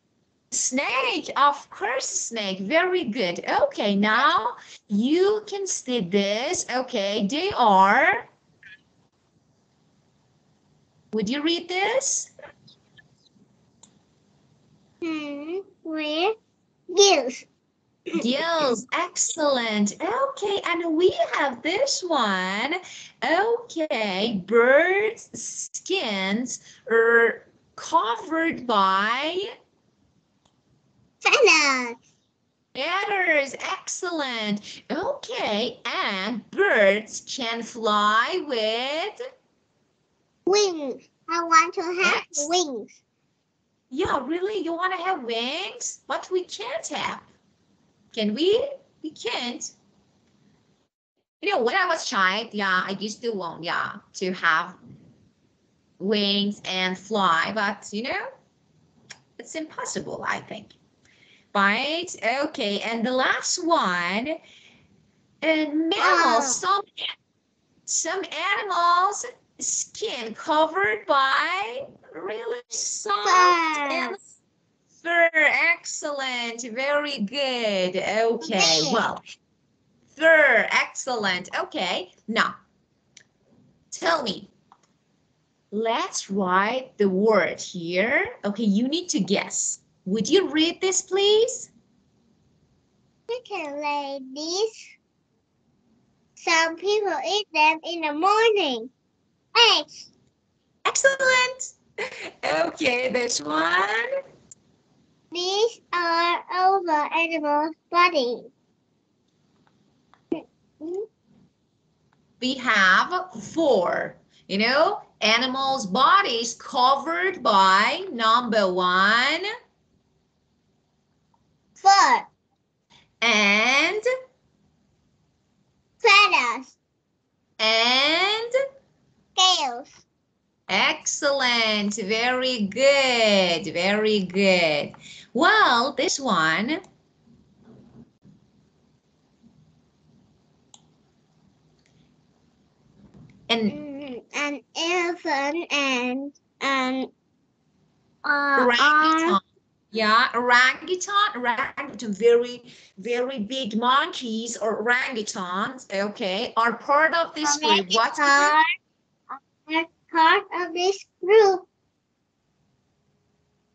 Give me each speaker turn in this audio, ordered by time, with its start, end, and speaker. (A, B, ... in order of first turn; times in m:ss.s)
0:00.5-0:08.2 A
0:11.1-0:12.3 A
0:15.0-0:16.3 B
0:16.9-0:17.4 B
0:18.2-0:29.5 A
0:31.2-0:32.0 B
0:32.7-0:39.2 A
0:40.5-0:43.0 B
0:42.0-0:42.5 A
0:43.9-0:47.3 A
0:48.1-0:49.7 A
0:51.4-0:54.8 A
0:56.0-0:58.2 A
0:59.4-1:00.7 A
1:01.5-1:04.4 A
1:05.4-1:07.1 A
1:06.0-1:06.6 B
1:07.9-1:14.3 A
1:13.2-1:14.2 B
1:15.0-1:19.2 A
1:18.4-1:19.0 B
1:20.1-1:22.5 A
1:23.9-1:24.5 A
1:25.7-1:31.7 A
1:33.3-1:34.9 B
1:36.4-1:38.9 B
1:39.5-1:40.1 B
1:40.8-1:41.7 A
1:42.4-1:44.1 A
1:45.3-1:48.5 B
1:50.3-1:51.1 B
1:52.4-1:59.5 A
2:01.8-2:02.3 B
2:03.2-2:04.0 A
2:06.0-2:06.7 B
2:07.6-2:08.5 A
2:09.4-2:10.0 B
2:10.7-2:16.8 A
2:23.5-2:23.8 A
2:23.7-2:27.1 B
2:28.2-2:29.4 B
2:28.6-2:29.4 A
2:29.9-2:38.5 A
2:37.4-2:38.6 B
2:39.3-2:41.7 B